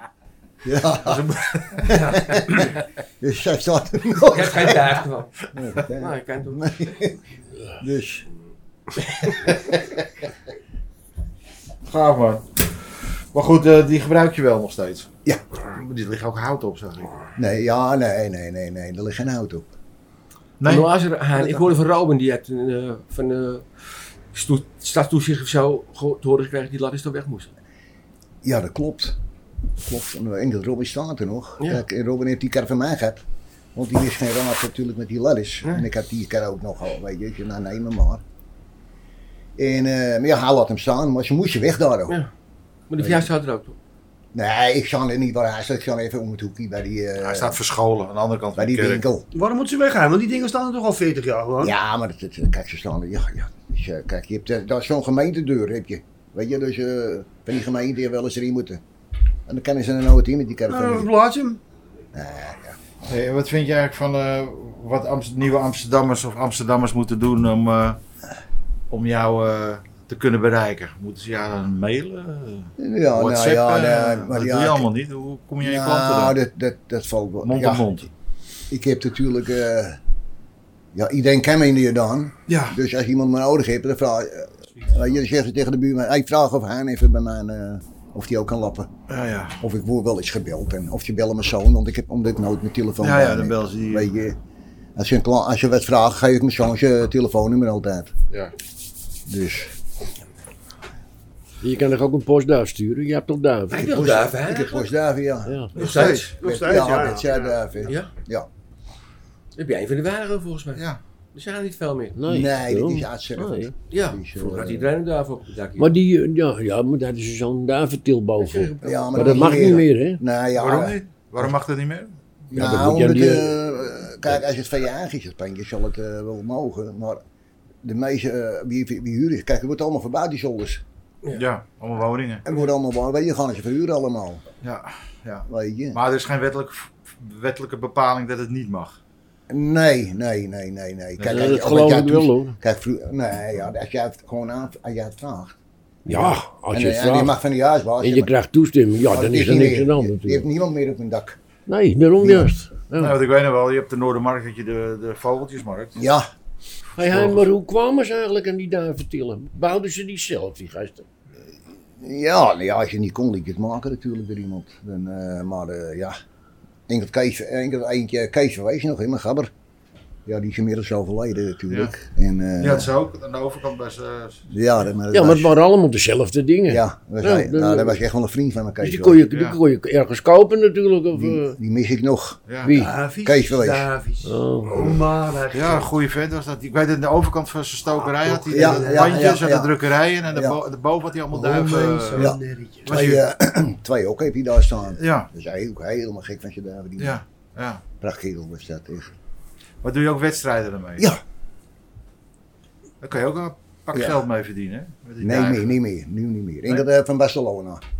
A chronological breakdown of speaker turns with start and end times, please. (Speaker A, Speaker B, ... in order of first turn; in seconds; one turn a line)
Speaker A: 0.6-7.1
Speaker B: 1.0-2.0
Speaker C: 1.9-2.4
Speaker C: 4.2-7.1
Speaker A: 7.8-8.2
Speaker B: 11.8-15.1
Speaker B: 15.7-17.1
Speaker A: 17.4-19.7
Speaker B: 20.6-20.9
Speaker C: 20.6-23.7
Speaker C: 24.3-27.5
Speaker A: 28.4-29.1
Speaker A: 29.8-33.2
Speaker A: 33.7-38.2
Speaker A: 39.6-42.2
Speaker C: 42.9-43.8
Speaker A: 43.0-43.3
Speaker A: 44.3-47.6
Speaker B: 47.2-49.0
Speaker A: 48.5-49.2
Speaker D: 49.3-51.7
Speaker A: 51.6-58.8
Speaker A: 59.5-61.1
Speaker D: 60.7-61.6
Speaker A: 62.1-62.8
Speaker B: 63.0-68.0
Speaker B: 68.9-76.4
Speaker A: 72.8-74.9
Speaker A: 75.6-77.8
Speaker B: 77.4-78.1
Speaker A: 78.7-80.0
Speaker A: 80.9-88.9
Speaker B: 82.5-82.8
Speaker B: 84.8-85.1
Speaker B: 89.1-89.6
Speaker A: 89.6-94.4
Speaker B: 93.0-94.1
Speaker A: 95.0-98.1
Speaker A: 99.3-99.7
Speaker E: 101.6-103.9
Speaker C: 103.7-104.9
Speaker A: 103.7-108.5
Speaker E: 105.5-105.7
Speaker C: 105.7-106.8
Speaker B: 105.8-106.4
Speaker D: 106.4-107.9
Speaker C: 107.8-108.1
Speaker C: 109.6-112.2
Speaker E: 112.2-113.7
Speaker A: 112.3-114.9
Speaker C: 113.9-116.0
Speaker E: 115.8-120.2
Speaker C: 118.4-119.8
Speaker A: 118.8-121.0
Speaker B: 120.5-122.1
Speaker A: 122.5-127.2
Speaker E: 122.5-123.6
Speaker A: 127.8-130.8
Speaker B: 131.3-132.4
Speaker A: 132.4-134.4
Speaker B: 134.6-139.0
Speaker A: 135.5-136.0
Speaker A: 139.5-148.3
Speaker B: 141.2-141.6
Speaker E: 141.2-142.6
Speaker E: 146.1-147.4
Speaker E: 148.0-150.4
Speaker A: 149.1-151.4
Speaker E: 151.7-153.2
Speaker A: 152.2-152.5
Speaker B: 152.9-156.0
Speaker A: 156.0-156.2
Speaker E: 157.0-161.1
Speaker B: 157.0-157.4
Speaker A: 162.0-166.2
Speaker A: 166.9-169.5
Speaker A: 170.2-172.9
Speaker B: 172.6-174.4
Speaker A: 174.5-175.5
Speaker E: 175.1-178.0
Speaker A: 176.7-179.2
Speaker E: 178.8-181.6
Speaker B: 179.3-179.6
Speaker A: 181.1-183.9
Speaker B: 182.5-182.8
Speaker E: 182.6-183.0
Speaker D: 182.7-185.9
Speaker E: 184.2-184.9
Speaker B: 185.5-192.3
Speaker D: 187.9-189.4
Speaker A: 188.5-189.7
Speaker A: 190.3-190.6
Speaker D: 191.3-193.0
Speaker A: 192.1-197.2
Speaker B: 192.8-193.2
Speaker B: 194.9-195.3
Speaker B: 197.0-197.8
Speaker A: 198.0-199.1
Speaker B: 199.8-201.1
Speaker B: 203.0-205.7
Speaker A: 205.2-207.8